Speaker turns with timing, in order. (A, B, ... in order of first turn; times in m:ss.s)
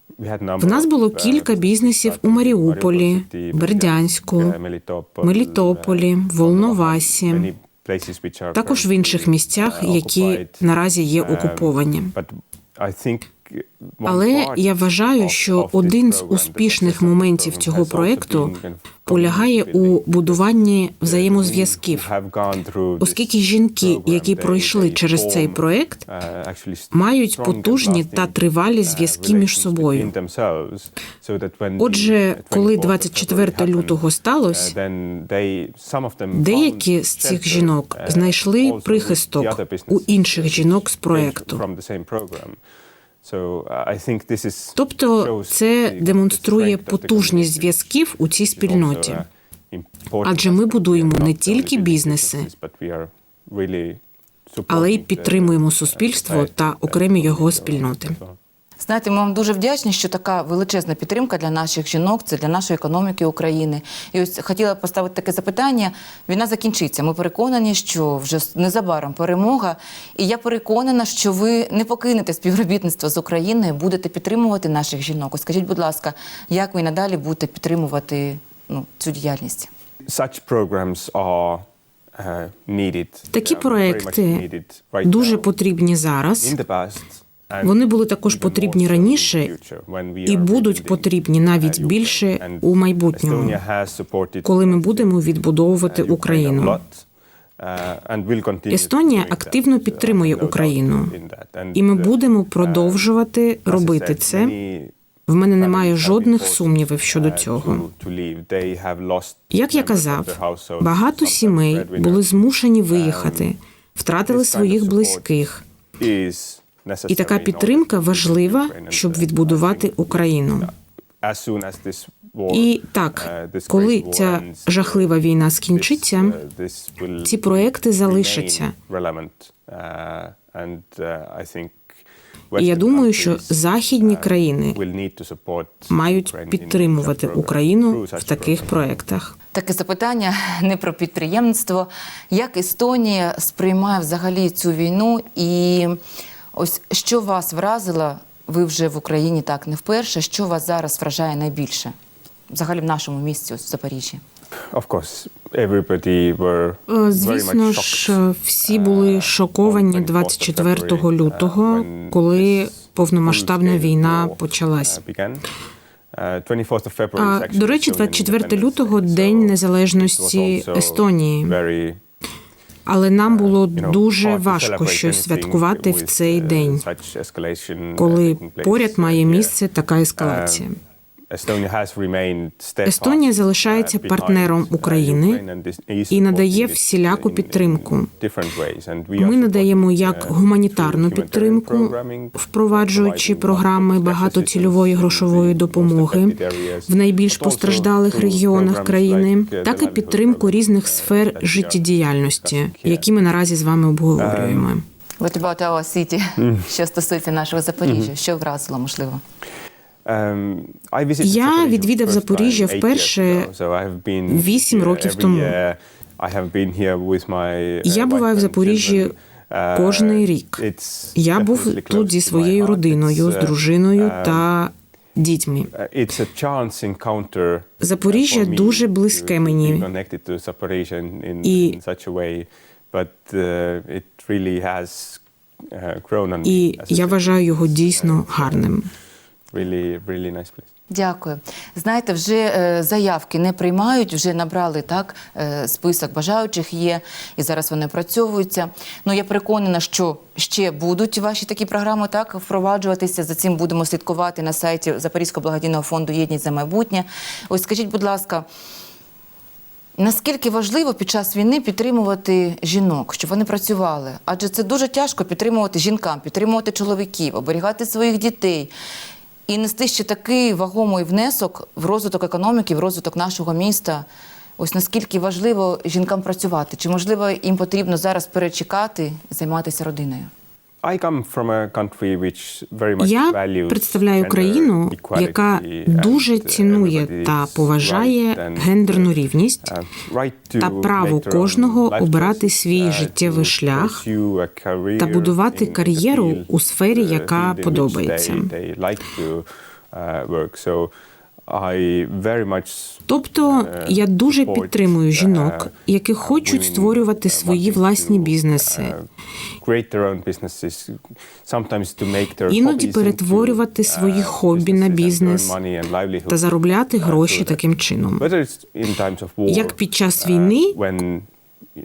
0:00.2-0:10.6 A
0:00.6-0:04.6 B
0:05.2-0:07.5 B
0:08.5-0:12.1 B
0:11.2-0:20.5 A
0:14.0-0:18.5 B
0:19.0-0:22.1 B
0:21.0-0:42.6 A
0:23.0-0:26.0 B
0:26.9-0:30.1 B
0:31.8-0:34.7 B
0:36.3-0:41.6 B
0:43.2-0:47.8 A
0:44.8-0:49.2 B
0:48.5-0:58.4 A
0:50.2-0:52.5 B
0:54.7-0:58.2 B
0:58.8-1:19.7 C
1:20.1-1:21.6 A
1:22.2-1:25.5 A
1:23.3-1:24.4 B
1:25.0-1:26.5 B
1:26.4-1:35.2 A
1:27.6-1:29.5 B
1:30.3-1:33.6 B
1:34.4-1:36.8 B
1:35.9-1:37.0 A
1:37.6-1:43.1 A
1:38.7-1:41.1 B
1:41.7-1:44.6 B
1:43.7-1:44.9 A
1:45.3-1:47.8 B
1:45.6-1:52.3 A
1:49.5-1:55.6 B
1:52.9-1:53.5 A
1:54.3-1:55.3 A
1:56.0-2:05.2 A
1:57.1-2:00.7 B
2:02.5-2:06.4 B
2:05.7-2:12.0 A
2:07.2-2:08.7 B
2:12.5-2:18.8 A
2:12.6-2:14.8 B
2:15.9-2:19.3 B
2:19.5-2:26.0 C
2:26.5-2:31.9 C
2:32.5-2:34.2 C
2:34.7-2:45.4 A
2:36.9-2:45.0 B
2:46.1-2:52.0 A
2:47.2-2:51.6 B
2:52.9-2:56.8 B
2:53.3-2:59.6 A
2:58.0-3:00.8 B
3:00.2-3:00.7 A
3:01.3-3:23.1 A
3:02.9-3:05.4 B
3:06.1-3:08.1 B
3:09.2-3:24.8 B
3:24.2-3:24.7 A
3:25.2-3:29.2 C
3:30.1-3:44.5 A
3:31.2-3:33.5 B
3:34.3-3:35.6 B
3:37.8-3:39.1 B
3:39.8-3:40.6 B
3:41.2-3:45.7 B
3:45.7-3:58.7 A
3:47.8-3:49.9 B
3:51.4-3:51.8 B
3:56.4-3:58.9 B
3:59.5-4:00.7 A
4:00.9-4:18.5 C
4:20.0-4:28.7 C
4:29.5-4:34.1 C
4:34.6-4:40.3 C
4:40.8-5:00.9 A
4:43.0-4:49.7 B
4:50.6-4:54.0 B
4:55.0-4:58.5 B
5:01.5-5:09.1 A
5:03.1-5:09.0 B
5:09.6-5:16.4 A
5:12.5-5:15.6 B
5:16.3-5:18.2 B
5:17.0-5:17.6 A
5:18.2-5:21.3 A
5:19.5-5:20.8 B